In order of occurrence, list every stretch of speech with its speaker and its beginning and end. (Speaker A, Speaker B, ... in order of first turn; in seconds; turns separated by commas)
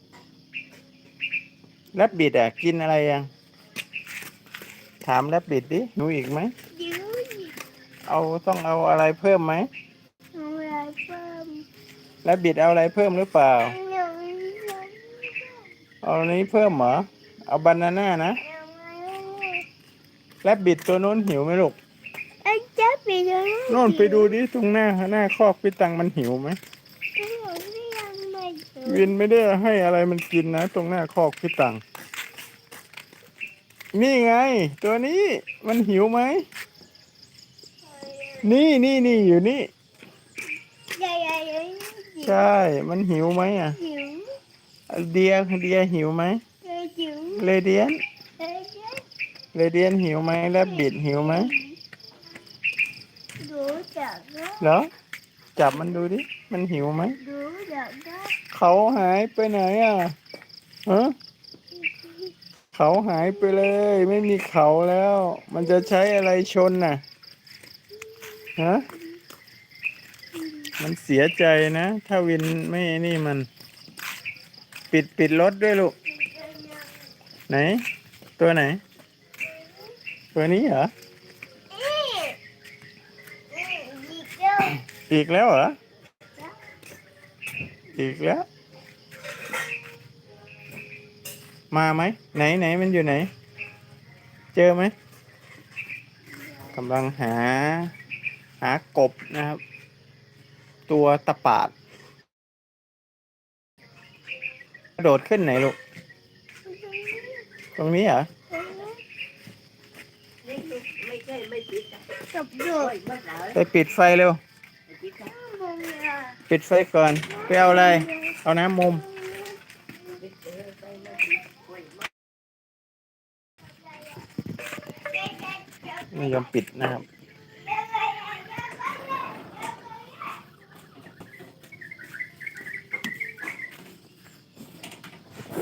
Speaker A: 1.9-3.3, Speaker A: 5.0-6.5, Speaker B: 6.7-7.6, Speaker A: 8.1-9.7, Speaker B: 10.3-11.7, Speaker A: 12.2-13.8, Speaker B: 13.7-15.7, Speaker A: 16.0-18.4, Speaker B: 18.4-19.7, Speaker A: 20.4-21.8, Speaker B: 22.4-24.3, Speaker A: 23.7-26.6, Speaker B: 27.2-29.1, Speaker A: 28.9-31.8, Speaker A: 33.9-36.5, Speaker B: 37.9-38.4, Speaker A: 38.4-39.7, Speaker B: 40.9-42.5, Speaker A: 42.2-43.8, Speaker B: 43.7-44.4, Speaker A: 44.9-46.4, Speaker B: 46.6-47.4, Speaker A: 47.4-48.0, Speaker B: 48.4-49.1, Speaker A: 49.5-51.5, Speaker B: 50.6-51.8, Speaker B: 53.4-54.8, Speaker A: 54.6-54.9, Speaker A: 55.6-57.2, Speaker B: 57.2-58.4, Speaker A: 58.5-60.1, Speaker A: 60.9-61.1, Speaker A: 62.7-67.0, Speaker B: 63.4-63.9, Speaker A: 68.6-68.8, Speaker A: 70.8-73.5, Speaker A: 74.9-75.9, Speaker B: 76.3-76.8, Speaker A: 77.5-77.8, Speaker A: 78.4-78.8, Speaker A: 80.3-80.9, Speaker B: 81.7-82.4, Speaker B: 83.5-84.8, Speaker A: 84.9-85.8, Speaker A: 88.0-88.5, Speaker A: 91.7-93.3, Speaker A: 94.5-94.9, Speaker A: 96.7-97.9, Speaker A: 98.6-99.6, Speaker A: 100.9-101.7, Speaker A: 105.0-105.8, Speaker B: 106.7-107.5, Speaker A: 107.8-108.3, Speaker B: 108.5-109.0, Speaker C: 110.5-112.2, Speaker B: 112.3-113.0, Speaker C: 112.9-113.5, Speaker A: 113.5-114.4, Speaker B: 115.3-116.4, Speaker A: 116.5-119.0, Speaker B: 117.3-118.4, Speaker B: 119.1-119.5, Speaker C: 120.5-121.2, Speaker A: 126.1-127.0, Speaker B: 127.9-128.7